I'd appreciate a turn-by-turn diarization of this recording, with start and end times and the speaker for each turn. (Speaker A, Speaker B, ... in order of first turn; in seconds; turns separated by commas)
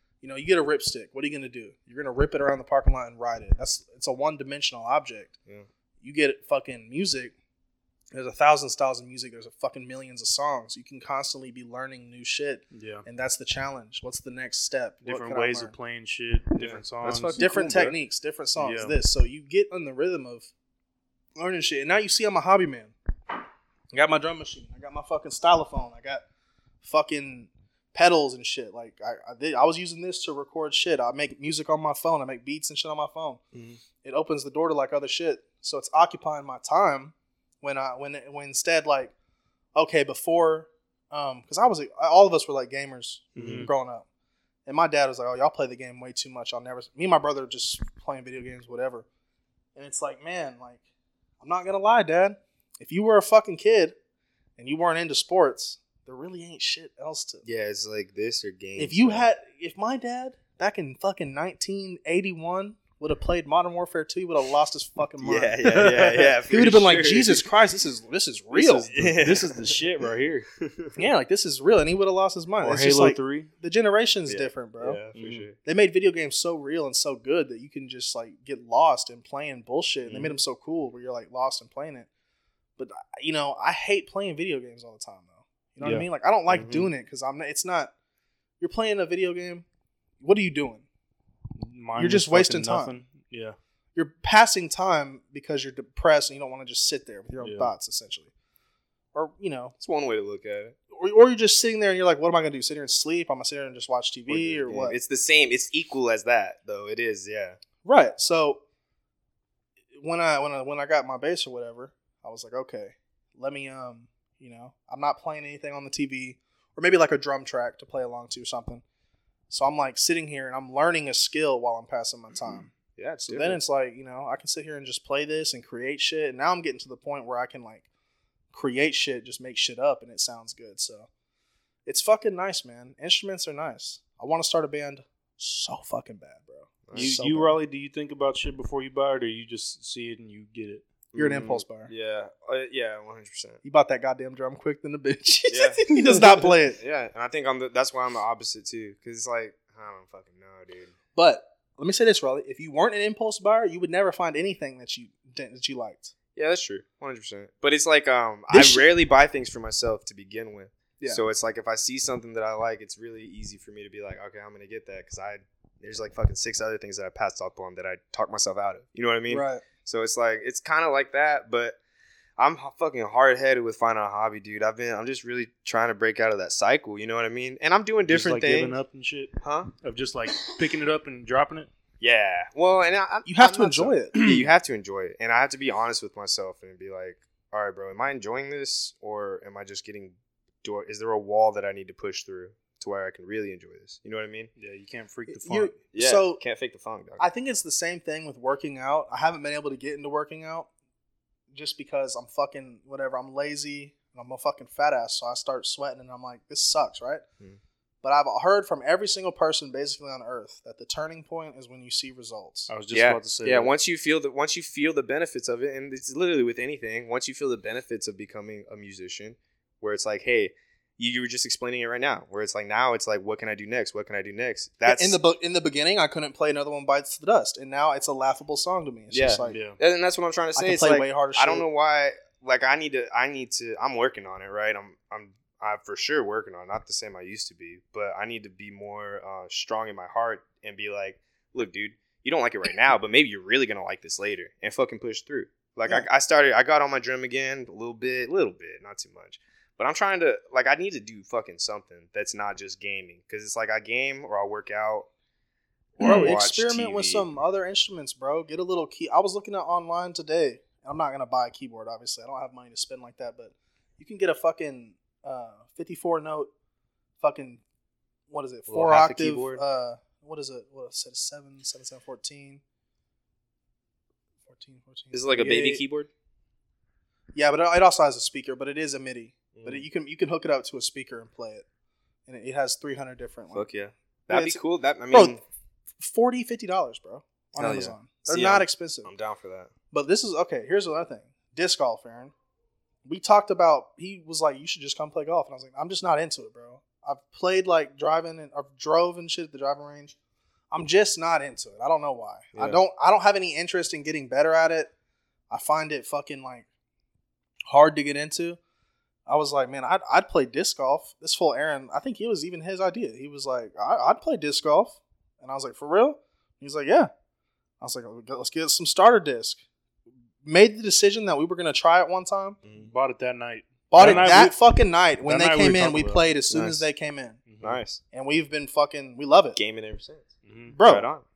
Speaker A: 0.2-5.3, Speaker A: 6.0-7.3, Speaker A: 8.1-15.7, Speaker B: 12.7-13.0, Speaker B: 15.0-17.4, Speaker C: 16.6-17.9, Speaker A: 17.3-20.5, Speaker B: 18.6-18.9, Speaker A: 21.4-22.9, Speaker A: 23.9-26.2, Speaker A: 26.8-33.4, Speaker A: 34.0-39.1, Speaker A: 39.7-44.0, Speaker B: 43.4-43.7, Speaker A: 44.6-49.0, Speaker A: 49.8-50.8, Speaker A: 51.4-54.0, Speaker A: 54.6-57.4, Speaker C: 57.4-59.3, Speaker A: 58.8-68.9, Speaker C: 65.2-67.5, Speaker B: 65.6-66.3, Speaker B: 68.5-70.5, Speaker C: 68.8-69.7, Speaker C: 70.6-70.9, Speaker A: 71.0-75.0, Speaker B: 72.6-73.5, Speaker C: 74.3-75.6, Speaker B: 75.1-75.5, Speaker A: 75.6-82.1, Speaker A: 82.8-87.9, Speaker B: 85.8-86.0, Speaker C: 86.5-86.9, Speaker A: 88.6-89.6, Speaker A: 90.2-90.8, Speaker B: 91.6-93.6, Speaker A: 92.0-92.9, Speaker A: 93.9-98.3, Speaker B: 97.4-97.7, Speaker A: 99.1-99.7, Speaker C: 99.8-100.8, Speaker A: 100.9-105.0, Speaker C: 104.3-107.6, Speaker A: 107.8-108.6, Speaker A: 110.0-118.8, Speaker A: 119.5-122.7, Speaker C: 123.0-123.6, Speaker A: 123.2-127.9, Speaker A: 128.5-131.1, Speaker A: 131.8-137.6, Speaker C: 136.8-137.2, Speaker B: 136.9-140.9, Speaker C: 141.1-143.6, Speaker A: 141.2-141.9, Speaker A: 143.6-146.8, Speaker C: 145.5-150.9, Speaker A: 151.1-156.1, Speaker C: 156.3-171.8, Speaker A: 158.5-158.9, Speaker A: 169.3-169.6, Speaker C: 172.4-178.8, Speaker B: 178.1-181.7, Speaker C: 179.4-179.7, Speaker C: 182.0-194.5, Speaker A: 183.2-184.3, Speaker B: 194.6-195.8, Speaker A: 195.3-196.4, Speaker C: 195.9-197.2, Speaker A: 197.2-200.7, Speaker A: 201.5-207.2, Speaker A: 208.0-212.7, Speaker B: 212.7-213.7, Speaker C: 212.9-225.2, Speaker A: 224.8-229.6, Speaker C: 229.1-255.1, Speaker B: 229.4-229.8, Speaker A: 230.6-231.7, Speaker C: 256.0-257.3, Speaker A: 256.0-266.5, Speaker A: 267.2-267.6, Speaker A: 268.3-272.6, Speaker C: 268.7-269.6, Speaker A: 274.5-275.8, Speaker C: 275.1-276.1, Speaker A: 277.3-281.6, Speaker C: 279.5-279.8, Speaker A: 282.3-283.7, Speaker C: 283.5-285.4, Speaker A: 284.3-284.6, Speaker A: 285.1-285.4, Speaker A: 286.0-289.1, Speaker C: 287.6-289.7, Speaker A: 289.9-292.3, Speaker A: 293.0-300.1, Speaker A: 300.7-304.9, Speaker A: 305.5-306.7, Speaker A: 307.7-308.6, Speaker A: 309.3-317.1, Speaker A: 317.8-319.6, Speaker A: 320.4-322.6, Speaker C: 322.6-322.9, Speaker B: 322.8-324.5, Speaker A: 323.9-327.4, Speaker C: 324.0-324.3, Speaker B: 325.2-326.8, Speaker B: 327.5-327.8, Speaker C: 327.6-328.0, Speaker A: 328.1-329.6, Speaker C: 329.5-330.3, Speaker B: 330.5-330.7, Speaker A: 330.7-331.1, Speaker C: 330.8-331.2